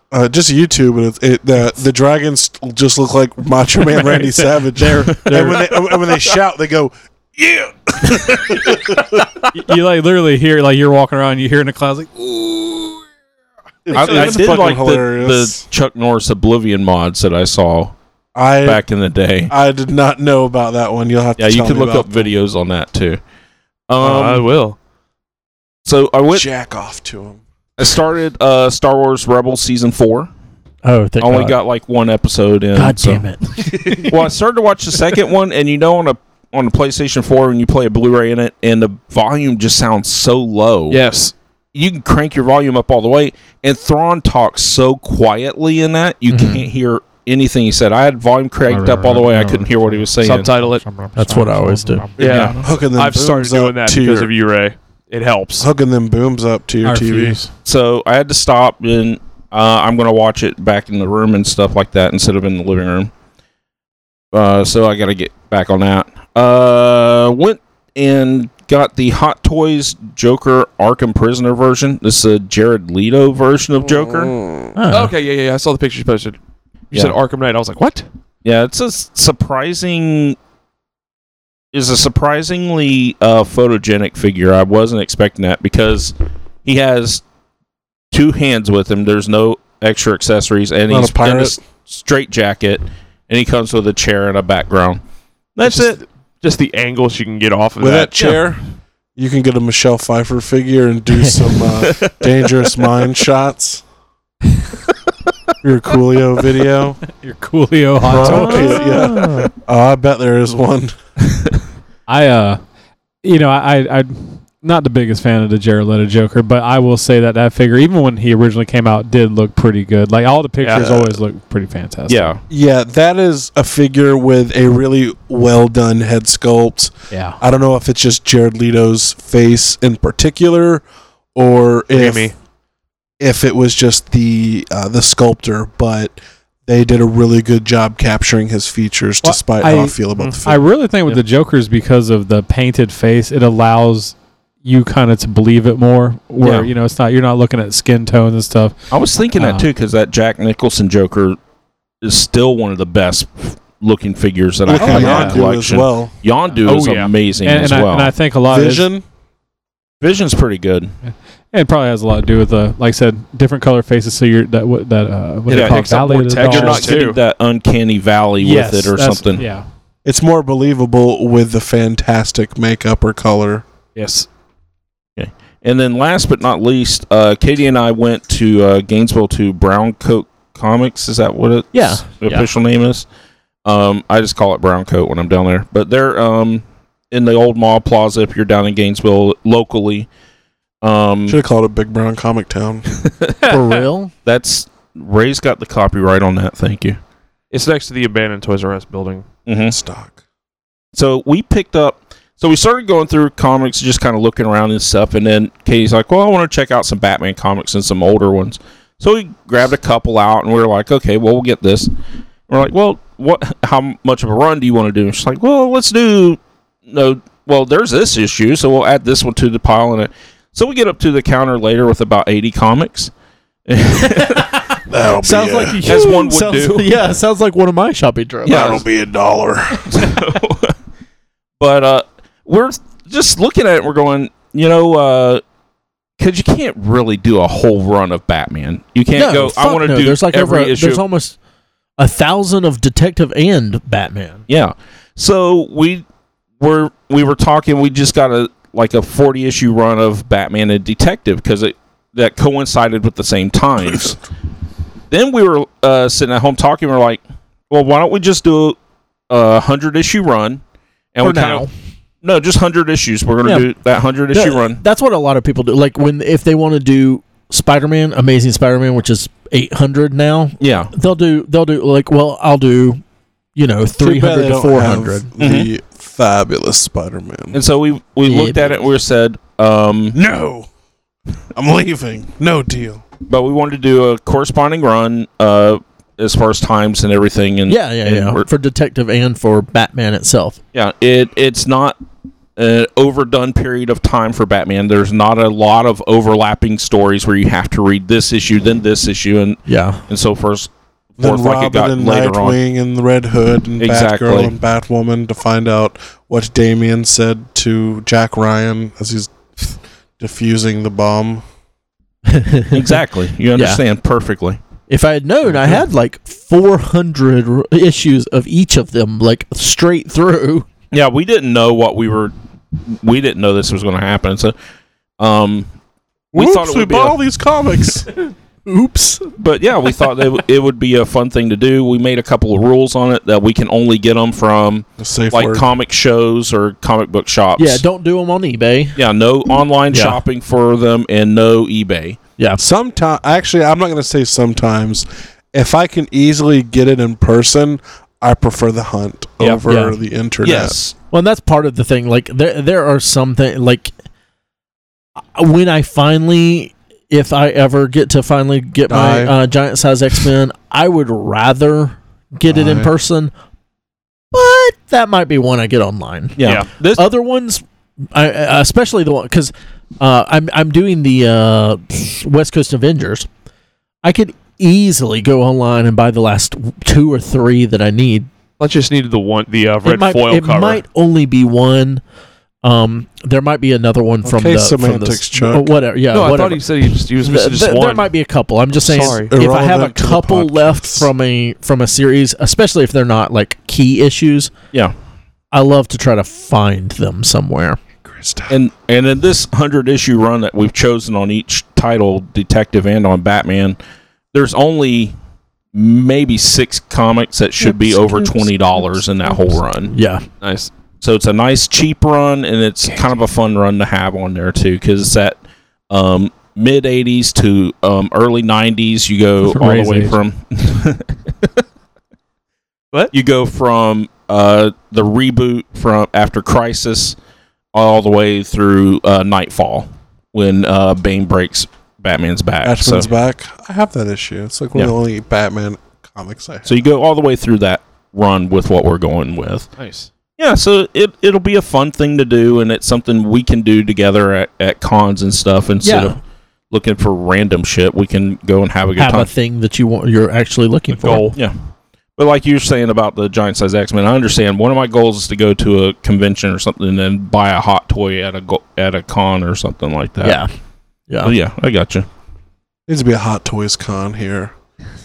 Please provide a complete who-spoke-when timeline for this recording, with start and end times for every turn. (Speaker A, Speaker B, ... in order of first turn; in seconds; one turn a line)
Speaker A: 0.1-9.2
Speaker B: 4.1-4.5
Speaker C: 5.2-5.6
Speaker B: 5.3-5.6
Speaker C: 8.3-8.6
Speaker B: 9.5-12.9
Speaker A: 13.8-15.6
Speaker C: 13.9-17.9
Speaker A: 18.3-18.8
Speaker C: 18.6-19.5
Speaker A: 19.5-22.3
Speaker C: 21.4-23.2
Speaker C: 23.9-24.4
Speaker D: 24.0-24.8
Speaker C: 25.8-26.5
Speaker A: 26.3-27.4
Speaker C: 27.8-30.3
Speaker E: 30.8-31.6
Speaker C: 31.2-33.2
Speaker E: 32.7-34.1
Speaker C: 34.0-41.0
Speaker D: 40.9-41.3
Speaker C: 41.7-50.5
Speaker E: 46.3-46.6
Speaker B: 48.7-49.7
Speaker D: 50.2-50.9
Speaker B: 50.9-52.4
Speaker E: 51.1-52.1
Speaker C: 52.2-52.6
Speaker A: 52.2-54.3
Speaker D: 52.2-55.7
Speaker A: 55.6-57.4
Speaker B: 56.8-57.5
Speaker C: 57.6-63.1
Speaker C: 64.3-74.4
Speaker E: 74.7-75.1
Speaker D: 74.9-76.4
Speaker D: 76.9-78.0
Speaker C: 78.4-80.4
Speaker C: 81.7-86.1
Speaker C: 86.6-87.2
Speaker C: 88.1-95.0
Speaker A: 90.9-91.6
Speaker C: 95.5-96.0
Speaker D: 95.6-98.1
Speaker A: 97.8-98.6
Speaker A: 99.2-103.8
Speaker A: 105.6-107.0
Speaker B: 107.1-109.2
Speaker A: 108.0-110.9
Speaker B: 112.1-112.6
Speaker B: 113.2-122.3
Speaker D: 120.6-120.9
Speaker A: 120.8-121.2
Speaker C: 122.1-122.4
Speaker A: 122.5-130.8
Speaker B: 127.1-127.4
Speaker A: 131.3-132.3
Speaker D: 131.9-132.3
Speaker A: 133.2-140.6
Speaker B: 139.2-148.7
Speaker C: 146.4-146.7
Speaker C: 148.9-151.4
Speaker B: 149.4-149.7
Speaker C: 152.0-158.1
Speaker A: 154.7-156.1
Speaker B: 154.8-155.4
Speaker D: 156.6-157.1
Speaker B: 157.4-158.9
Speaker A: 158.5-159.0
Speaker C: 160.0-160.9
Speaker B: 161.1-167.0
Speaker D: 165.5-167.2
Speaker C: 165.5-169.4
Speaker B: 168.4-169.7
Speaker A: 170.0-173.6
Speaker D: 173.9-174.3
Speaker C: 175.2-183.1
Speaker E: 181.7-182.4
Speaker C: 183.6-190.1
Speaker C: 190.8-191.4
Speaker A: 191.3-192.9
Speaker C: 193.1-193.3
Speaker E: 193.4-194.1
Speaker C: 194.2-197.0
Speaker D: 197.5-199.2
Speaker C: 199.5-199.8
Speaker A: 199.7-200.2
Speaker C: 200.9-211.9
Speaker C: 212.5-223.1
Speaker C: 223.7-224.6
Speaker A: 224.9-225.9
Speaker E: 225.2-228.8
Speaker C: 225.8-226.9
Speaker C: 228.4-228.8
Speaker A: 228.4-229.9
Speaker C: 229.8-230.7
Speaker C: 231.6-235.4
Speaker C: 236.2-241.0
Speaker E: 239.1-241.4
Speaker E: 242.0-244.4
Speaker C: 244.5-246.0
Speaker C: 246.6-254.2
Speaker C: 255.1-258.8
Speaker C: 259.3-260.6
Speaker C: 261.1-261.6
Speaker E: 261.2-261.7
Speaker C: 262.2-264.8
Speaker E: 263.4-263.7
Speaker E: 264.3-273.0
Speaker C: 270.6-270.9
Speaker E: 273.6-275.3
Speaker A: 274.0-277.6
Speaker C: 275.4-275.7
Speaker C: 277.5-280.2
Speaker E: 278.2-278.8
Speaker A: 280.1-280.7
Speaker A: 281.5-283.0
Speaker C: 283.3-288.4
Speaker E: 287.7-290.6
Speaker C: 290.7-292.0
Speaker C: 292.6-302.6
Speaker E: 299.7-300.0
Speaker A: 301.2-311.4
Speaker C: 303.8-304.5
Speaker E: 312.3-313.0
Speaker C: 312.7-314.6
Speaker E: 313.5-313.8
Speaker E: 314.9-320.6
Speaker C: 320.9-322.3
Speaker C: 322.9-324.5
Speaker C: 325.2-325.7
Speaker C: 326.3-327.2
Speaker A: 326.3-328.1
Speaker E: 328.6-329.3
Speaker C: 329.4-337.8
Speaker A: 335.0-335.6
Speaker E: 337.6-339.0
Speaker C: 338.9-342.2
Speaker E: 339.9-340.2
Speaker A: 342.6-350.8
Speaker E: 349.6-350.0
Speaker C: 350.4-350.9
Speaker E: 351.1-353.9
Speaker E: 355.3-363.3
Speaker A: 358.9-359.4
Speaker A: 362.5-362.9
Speaker E: 364.3-373.3
Speaker C: 366.4-367.1
Speaker E: 374.0-378.3
Speaker D: 378.6-380.8
Speaker E: 379.8-382.0
Speaker E: 382.6-394.5
Speaker A: 384.2-385.8
Speaker D: 386.1-388.1
Speaker D: 388.9-389.3
Speaker A: 389.0-391.1
Speaker E: 395.5-397.8
Speaker A: 398.0-398.6
Speaker C: 398.5-403.8
Speaker C: 404.3-405.1
Speaker C: 405.7-409.9
Speaker E: 409.9-410.2
Speaker D: 410.4-410.7
Speaker C: 411.0-415.4
Speaker C: 415.9-421.5
Speaker B: 419.4-420.1
Speaker C: 423.1-427.1
Speaker C: 427.7-433.1
Speaker A: 432.6-436.7
Speaker C: 436.6-439.7
Speaker D: 439.8-440.1
Speaker C: 440.4-446.2
Speaker E: 445.8-446.2
Speaker C: 446.7-449.3
Speaker E: 449.0-451.3
Speaker D: 450.9-451.4
Speaker C: 452.2-460.4
Speaker E: 460.2-460.5
Speaker E: 461.1-461.3
Speaker C: 461.2-462.1
Speaker A: 462.9-464.5